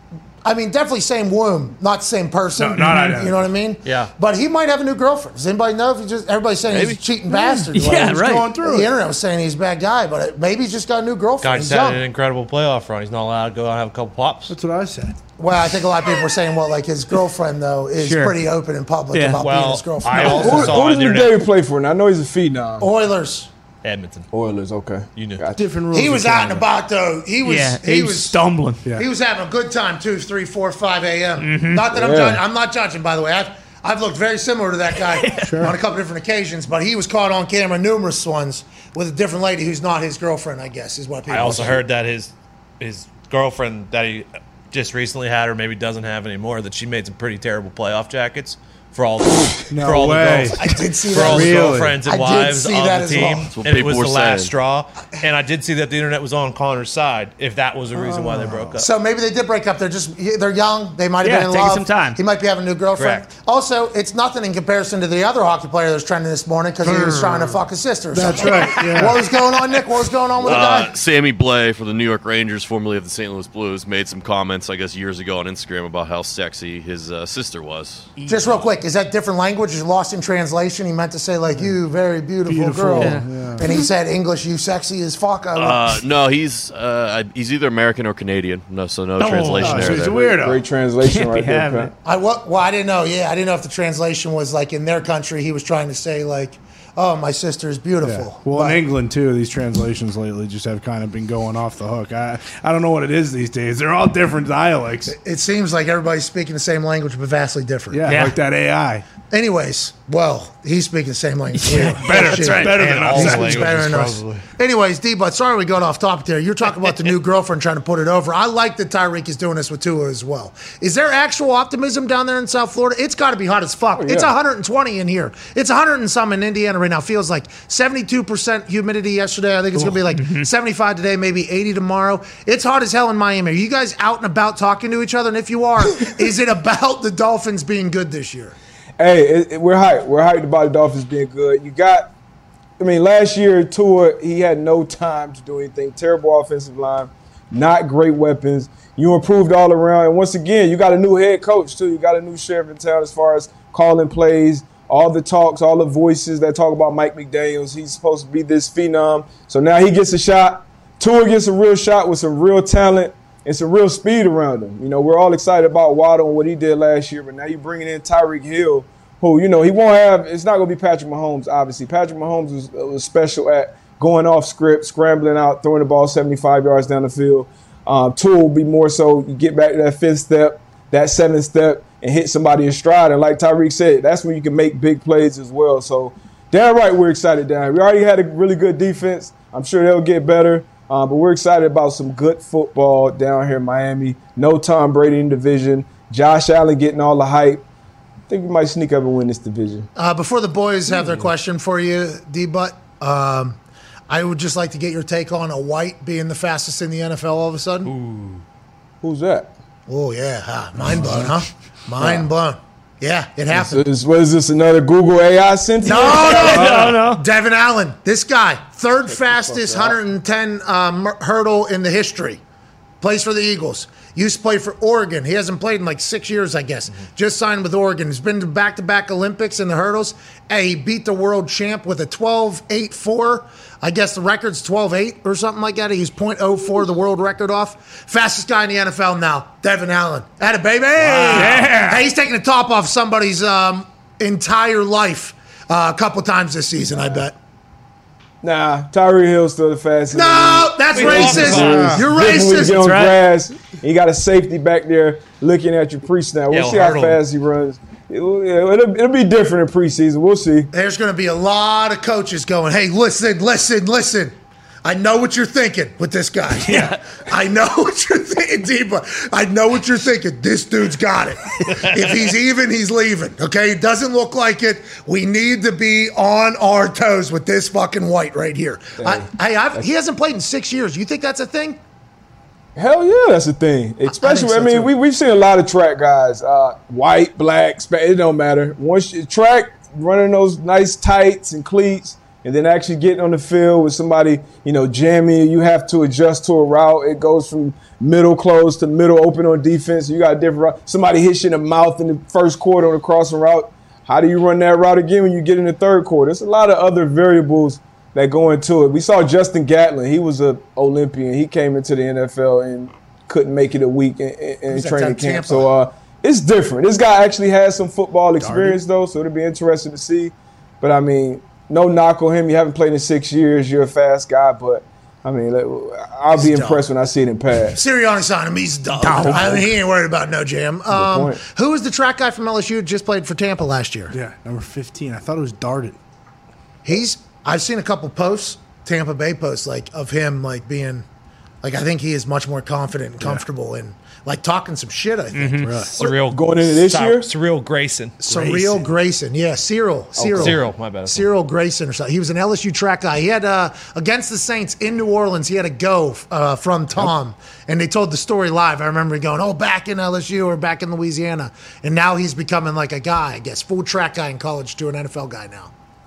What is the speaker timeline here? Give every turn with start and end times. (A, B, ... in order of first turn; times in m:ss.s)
0:00.4-0:12.0 A
0:02.6-0:03.5 B
0:03.8-0:04.1 C
0:07.4-0:08.5 D
0:07.9-0:08.9 B
0:11.4-0:14.6 C
0:14.5-0:15.2 B
0:15.4-0:20.8 A
0:18.0-0:18.4 D
0:19.1-0:19.4 D
0:19.4-0:21.5 C
0:20.2-0:22.9 E
0:22.8-0:23.5 A
0:23.8-0:24.3 C
0:24.3-0:25.6 E
0:25.1-0:25.4 C
0:25.6-0:26.6 B
0:25.9-0:28.4 A
0:27.4-0:28.8 D
0:29.0-0:41.8 A
0:31.4-0:31.8 D
0:31.9-0:32.4 E
0:35.1-0:35.5 D
0:35.4-0:35.8 B
0:41.3-0:58.9 C
0:49.7-0:50.6 B
0:50.6-0:53.5 A
0:51.1-0:52.0 B
0:53.5-0:54.5 F
0:57.9-0:58.7 B
0:58.8-1:11.0 A
1:01.2-1:02.2 D
1:03.0-1:03.3 C
1:06.8-1:09.2 B
1:10.4-1:18.1 F
1:18.2-1:18.6 D
1:18.3-1:26.0 A
1:22.4-1:23.6 B
1:23.0-1:23.8 D
1:25.6-1:30.3 F
1:29.2-1:29.8 D
1:29.2-1:30.6 B
1:29.7-1:31.9 E
1:31.0-1:31.9 D
1:32.0-1:38.8 A
1:38.0-1:45.2 B
1:45.1-1:48.1 A
1:47.9-1:49.0 B
1:48.1-1:48.3 D
1:49.3-2:18.6 A
1:51.6-1:52.8 D
1:51.7-1:53.8 B
1:52.6-1:54.5 C
2:03.9-2:04.3 E
2:10.1-2:10.5 D
2:19.0-2:22.1 E
2:22.8-3:17.6 E
3:18.3-3:19.9 E
3:20.0-3:23.6 A
3:24.1-3:27.9 A
3:27.8-3:28.4 C
3:29.0-3:29.5 E
3:29.9-3:33.8 A
3:31.0-3:31.3 B
3:32.0-3:32.3 E
3:33.5-3:36.9 E
3:35.8-3:42.4 A
3:36.0-3:37.2 D
3:36.6-3:37.0 B
3:39.1-3:40.0 E
3:43.0-4:07.4 A
4:01.3-4:02.1 B
4:08.4-4:20.7 E
4:10.1-4:13.0 A
4:10.9-4:12.0 C
4:11.5-4:12.0 B
4:12.8-4:13.1 D
4:16.5-4:17.2 C
4:20.7-4:41.8 A
4:26.7-4:27.0 D
4:39.0-4:39.9 E
4:42.8-5:27.8 E
4:44.1-4:44.9 A
5:14.7-5:15.7 A
5:18.4-5:18.8 B
5:26.3-5:26.8 A
5:27.7-5:34.2 A
5:29.0-5:29.6 D
5:29.3-5:29.6 E
5:30.9-5:31.4 E
5:34.1-5:36.0 B
5:36.8-5:41.0 A
5:41.6-5:45.9 A
5:45.3-5:45.7 D
5:45.6-5:45.9 B
5:45.9-5:48.9 C
5:46.0-5:47.3 E
5:48.2-6:05.7 A
5:50.2-5:50.6 E
5:50.3-5:51.3 C